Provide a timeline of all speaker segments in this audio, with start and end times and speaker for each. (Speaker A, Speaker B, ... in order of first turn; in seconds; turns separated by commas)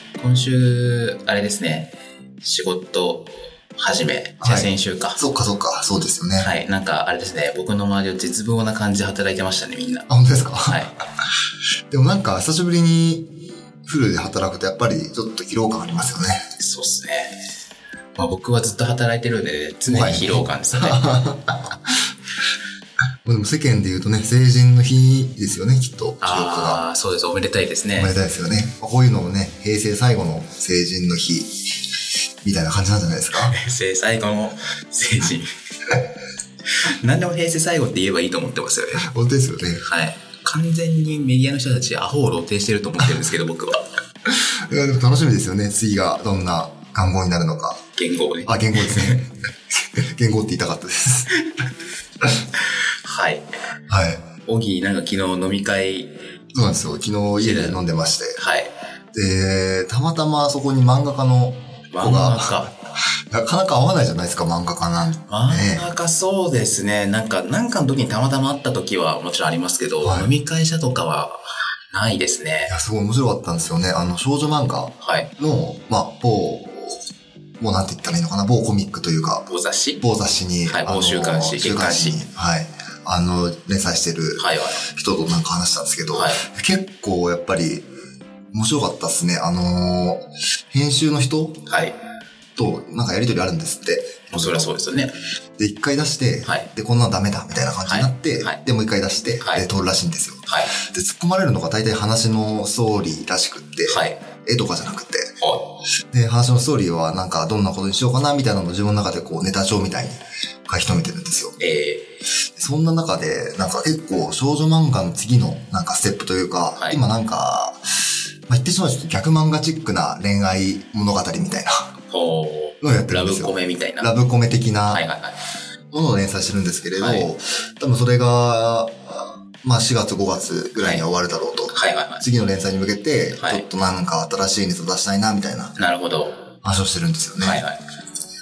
Speaker A: 0.2-5.2, Speaker B: 4.4-6.5, Speaker A: 6.4-10.1, Speaker B: 10.1-10.9, Speaker A: 10.6-10.9, Speaker B: 11.9-13.3, Speaker B: 13.8-16.4, Speaker A: 16.6-17.3, Speaker A: 18.2-21.2, Speaker B: 19.9-22.1, Speaker B: 23.2-26.8, Speaker A: 26.2-28.1, Speaker B: 27.9-31.5, Speaker B: 32.4-33.5, Speaker A: 33.4-35.5, Speaker A: 36.8-39.1, Speaker B: 39.0-39.8, Speaker A: 39.8-43.8, Speaker B: 44.2-47.8, Speaker A: 48.0-49.2, Speaker B: 48.5-51.3, Speaker A: 52.5-53.4, Speaker B: 53.9-54.2, Speaker A: 54.4-56.1, Speaker B: 56.5-58.4, Speaker A: 57.4-57.8, Speaker A: 58.4-58.7, Speaker B: 59.1-62.7, Speaker A: 61.9-62.7, Speaker B: 63.3-65.9, Speaker A: 65.3-72.7, Speaker B: 70.0-70.3, Speaker B: 72.7-77.0, Speaker A: 75.0-75.3, Speaker B: 77.6-79.5, Speaker A: 79.5-80.0, Speaker B: 80.0-87.8, Speaker A: 80.6-82.2, Speaker A: 84.4-84.8, Speaker A: 86.1-86.4, Speaker B: 88.5-91.6, Speaker A: 91.7-92.0, Speaker B: 92.6-94.7, Speaker A: 94.3-95.1, Speaker B: 95.6-105.3, Speaker A: 97.8-98.6, Speaker A: 99.4-99.7, Speaker A: 100.5-100.7, Speaker A: 103.9-104.2, Speaker A: 105.4-105.7, Speaker B: 106.1-111.5, Speaker A: 111.6-112.1, Speaker B: 112.6-117.8, Speaker A: 116.8-117.0, Speaker B: 118.5-121.9, Speaker A: 122.1-124.1, Speaker B: 122.8-125.0, Speaker A: 124.9-125.4, Speaker B: 125.9-128.9, Speaker A: 127.0-127.3, Speaker B: 129.6-135.7, Speaker A: 130.8-131.0, Speaker A: 131.7-132.2, Speaker A: 133.3-133.6, Speaker A: 135.8-136.4, Speaker B: 136.6-137.6, Speaker A: 137.4-137.8